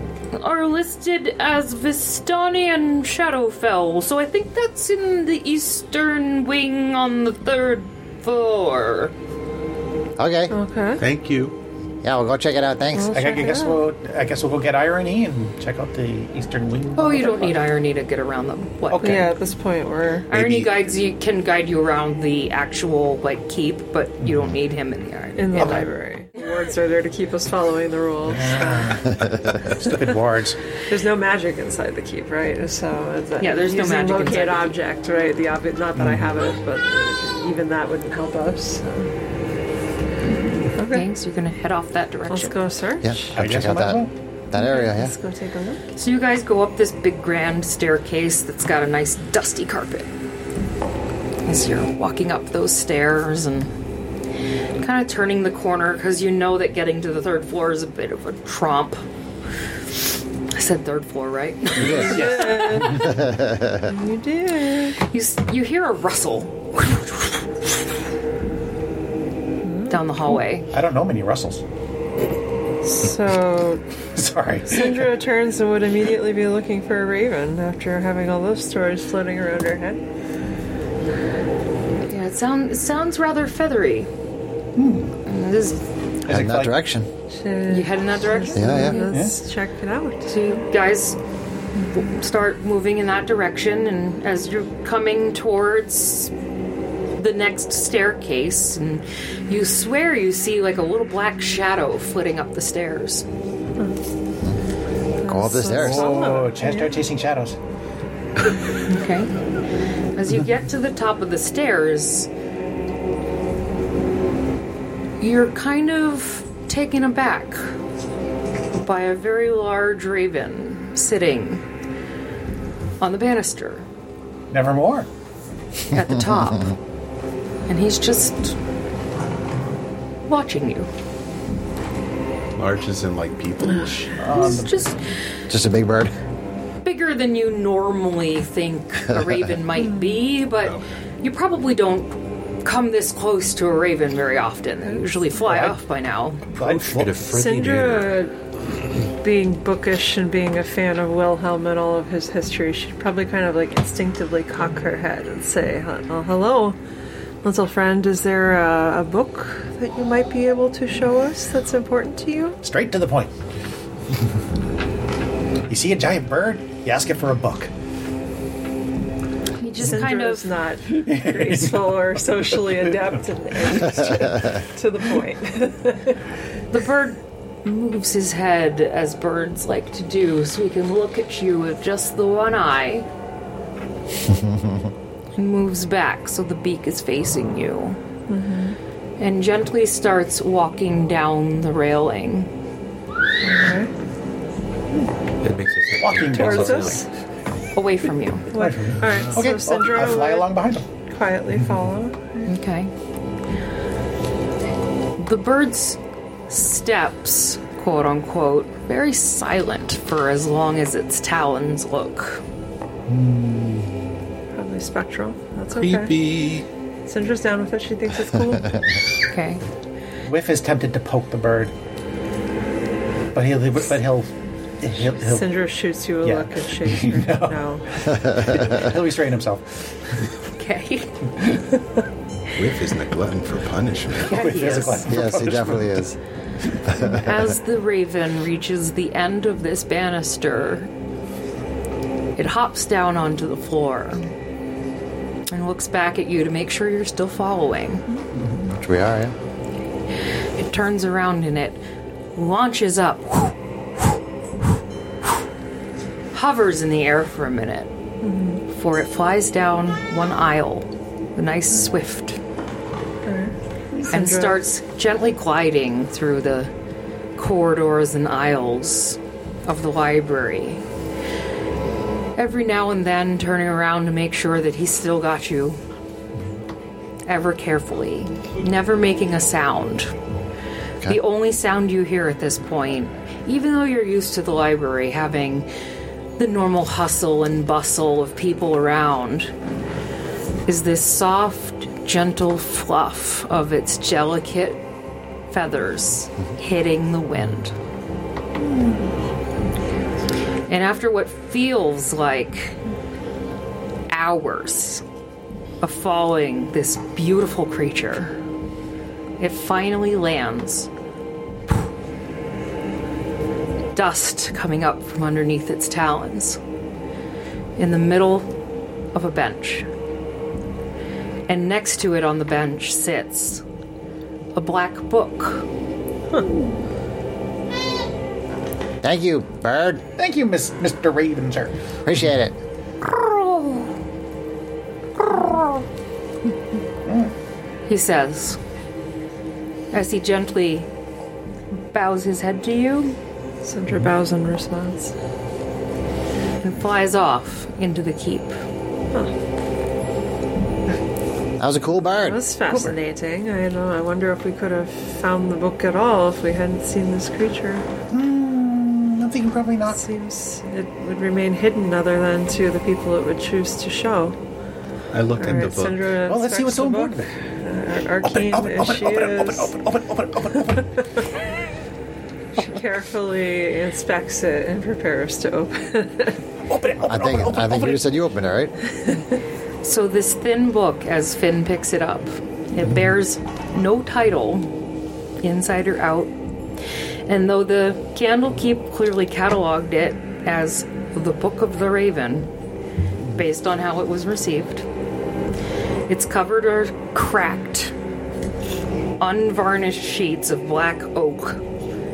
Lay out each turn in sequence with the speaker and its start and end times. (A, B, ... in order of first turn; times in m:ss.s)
0:00.3-0:09.1 A
0:10.2-0:10.5 B
0:10.5-0:11.0 C
0:11.0-0:11.6 D
0:12.0-0:13.2 B
0:12.9-0:13.8 C
0:13.1-0:17.6 E
0:17.0-0:19.3 A
0:18.9-0:19.3 E
0:19.0-0:20.3 C
0:20.3-0:25.9 A
0:20.3-0:20.7 D
0:24.2-0:24.5 E
0:25.4-0:29.1 C
0:25.6-0:25.8 E
0:28.3-0:30.6 E
0:30.9-0:39.1 C
0:33.4-0:34.8 A
0:36.0-0:36.3 E
0:40.7-0:41.1 C
0:40.9-0:42.6 A
0:42.3-0:43.3 C
0:43.0-0:45.1 B
0:43.3-0:44.1 E
0:44.5-0:45.8 C
0:45.9-0:50.1 A
0:51.4-0:53.7 A
0:54.8-0:59.0 A
1:00.5-1:03.0 A
1:01.8-1:02.2 B
1:01.8-1:03.1 C
1:01.9-1:03.1 E
1:02.9-1:03.8 B
1:03.8-1:05.0 C
1:05.0-1:07.7 A
1:09.6-1:10.3 C
1:09.9-1:10.7 A
1:10.7-1:11.6 E
1:12.8-1:13.8 C
1:14.2-1:15.1 E
1:14.6-1:20.0 C
1:22.1-1:24.1 A
1:24.8-1:25.1 E
1:25.2-1:25.8 A
1:26.2-1:26.8 E
1:26.3-1:27.1 B
1:27.3-1:30.6 C
1:27.7-1:29.1 A
1:28.5-1:29.0 B
1:28.9-1:29.4 E
1:30.3-1:31.2 A
1:31.8-1:36.3 A
1:37.2-1:43.2 A
1:45.2-1:47.0 C
1:45.2-1:46.2 B
1:45.7-1:47.6 E
1:48.8-1:49.3 A
1:50.2-1:52.3 A
1:55.2-1:57.6 A
1:58.8-2:01.6 A
2:03.0-2:03.8 A
2:04.5-2:05.1 E
2:05.9-2:06.8 A
2:07.7-2:08.6 A
2:10.3-2:10.9 A
2:12.6-2:14.3 D
2:14.2-2:14.9 E
2:14.3-2:15.0 A
2:15.5-2:16.1 B
2:16.8-2:26.4 A
2:19.8-2:20.2 C
2:24.8-2:25.1 C
2:25.4-2:25.8 E
2:26.5-2:27.2 E
2:26.6-2:28.2 F
2:27.3-2:28.3 C
2:29.2-2:36.8 C
2:37.4-2:42.6 C
2:42.6-2:43.3 E
2:45.7-2:47.7 E
2:49.6-2:50.5 A
2:49.8-2:56.2 C
2:50.9-2:52.0 E
2:56.7-3:03.0 A
3:04.2-3:04.8 B
3:05.4-3:08.0 A
3:08.3-3:08.8 C
3:09.2-3:12.5 A
3:13.4-3:13.9 C
3:15.4-3:17.0 F
3:16.0-3:17.0 E
3:16.3-3:17.1 C
3:17.7-3:18.5 A
3:18.5-3:22.5 C
3:18.5-3:20.8 E
3:22.4-3:22.9 A
3:25.2-3:26.0 A
3:26.5-3:32.4 A
3:33.1-3:34.0 E
3:34.5-3:36.2 C
3:35.8-3:36.7 D
3:37.0-3:38.8 C
3:39.3-3:39.6 A
3:40.2-3:41.7 E
3:43.3-3:45.6 E
3:45.2-3:47.9 C
3:46.2-3:49.6 E
3:50.6-3:51.1 A
3:52.5-3:54.4 D
3:54.2-3:55.1 A
3:54.3-3:56.0 E
3:55.0-3:56.2 B
3:57.0-3:57.3 B
3:57.0-4:00.9 A
4:02.4-4:04.3 A
4:05.5-4:08.0 A
4:08.5-4:09.3 B
4:10.6-4:11.8 A
4:12.4-4:14.2 A
4:16.3-4:17.9 A
4:18.2-4:18.6 C
4:18.7-4:22.4 A
4:23.2-4:24.6 C
4:24.1-4:26.7 A
4:27.4-4:30.8 A
4:32.4-4:35.8 A
4:37.3-4:40.1 A
4:41.0-4:45.7 A
4:46.4-4:49.5 A
4:50.7-4:54.8 A
4:55.5-4:57.8 A
5:00.7-5:02.8 A
5:04.1-5:05.0 A
5:05.8-5:08.4 A
5:09.4-5:10.9 A
5:13.9-5:16.6 A
5:17.8-5:18.5 A
5:19.1-5:19.9 A
5:21.5-5:23.6 A
5:24.5-5:25.7 A
5:29.0-5:30.0 B
5:30.2-5:31.7 E
5:32.0-5:32.6 B
5:33.0-5:33.9 A
5:35.2-5:35.8 A
5:37.0-5:37.3 E
5:37.9-5:38.6 A
5:39.9-5:40.9 A
5:41.9-5:43.2 A
5:43.6-5:45.1 C
5:46.6-5:48.5 A
5:51.6-5:52.4 B
5:52.2-5:57.8 C
5:58.1-6:00.0 E
5:59.9-6:04.4 C
6:05.1-6:06.1 D
6:05.4-6:09.7 C
6:06.2-6:07.3 E
6:08.2-6:11.0 E
6:12.6-6:16.4 C
6:16.7-6:18.0 E
6:17.0-6:18.8 B
6:19.8-6:24.7 A
6:25.4-6:26.3 A
6:27.3-6:32.5 A
6:33.3-6:34.8 A
6:36.1-6:37.9 A
6:39.2-6:41.6 A